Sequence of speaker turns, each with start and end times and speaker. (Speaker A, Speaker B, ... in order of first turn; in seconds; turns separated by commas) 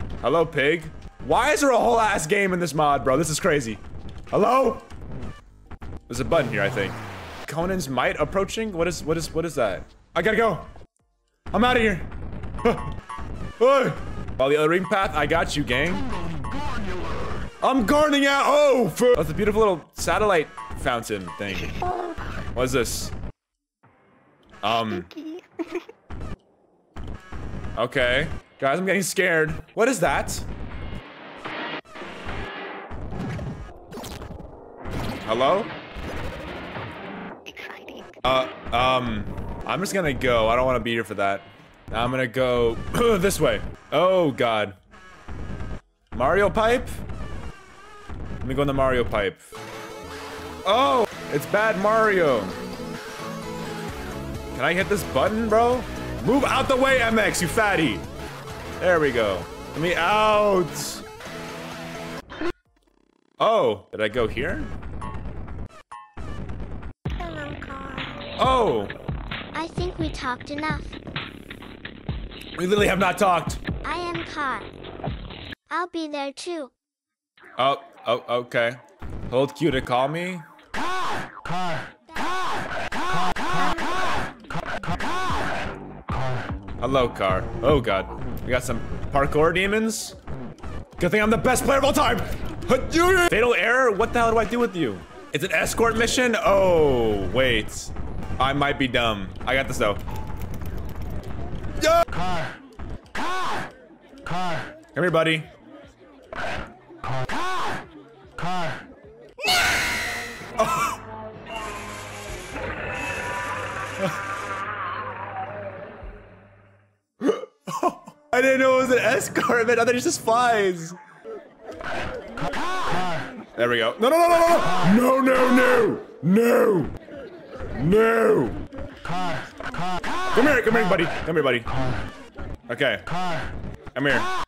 Speaker A: 0.2-4.9, Speaker A: 6.1-10.7, Speaker A: 11.5-12.1, Speaker A: 12.6-12.9, Speaker A: 13.6-16.1, Speaker A: 17.6-21.8, Speaker B: 21.5-22.4, Speaker A: 22.5-23.1, Speaker A: 24.6-25.1, Speaker B: 24.7-25.9, Speaker A: 27.8-30.4, Speaker A: 35.2-35.7, Speaker B: 37.4-38.2, Speaker A: 38.2-44.8, Speaker A: 46.1-46.9, Speaker A: 48.4-49.5, Speaker A: 50.6-52.6, Speaker A: 54.5-58.1, Speaker A: 58.8-61.0, Speaker A: 63.4-64.7, Speaker B: 67.1-68.2, Speaker A: 68.4-68.9, Speaker C: 69.5-71.0, Speaker A: 72.6-73.6, Speaker C: 73.8-74.7, Speaker C: 75.7-76.7, Speaker A: 77.6-80.5, Speaker C: 82.2-82.5, Speaker C: 83.5-84.2, Speaker A: 86.8-90.2, Speaker A: 91.0-100.0, Speaker A: 101.8-102.1, Speaker A: 104.9-105.5, Speaker A: 110.6-111.0, Speaker A: 117.2-121.0, Speaker A: 123.5-126.9, Speaker A: 127.7-128.6, Speaker A: 130.3-131.7, Speaker A: 132.7-133.0, Speaker A: 133.9-134.3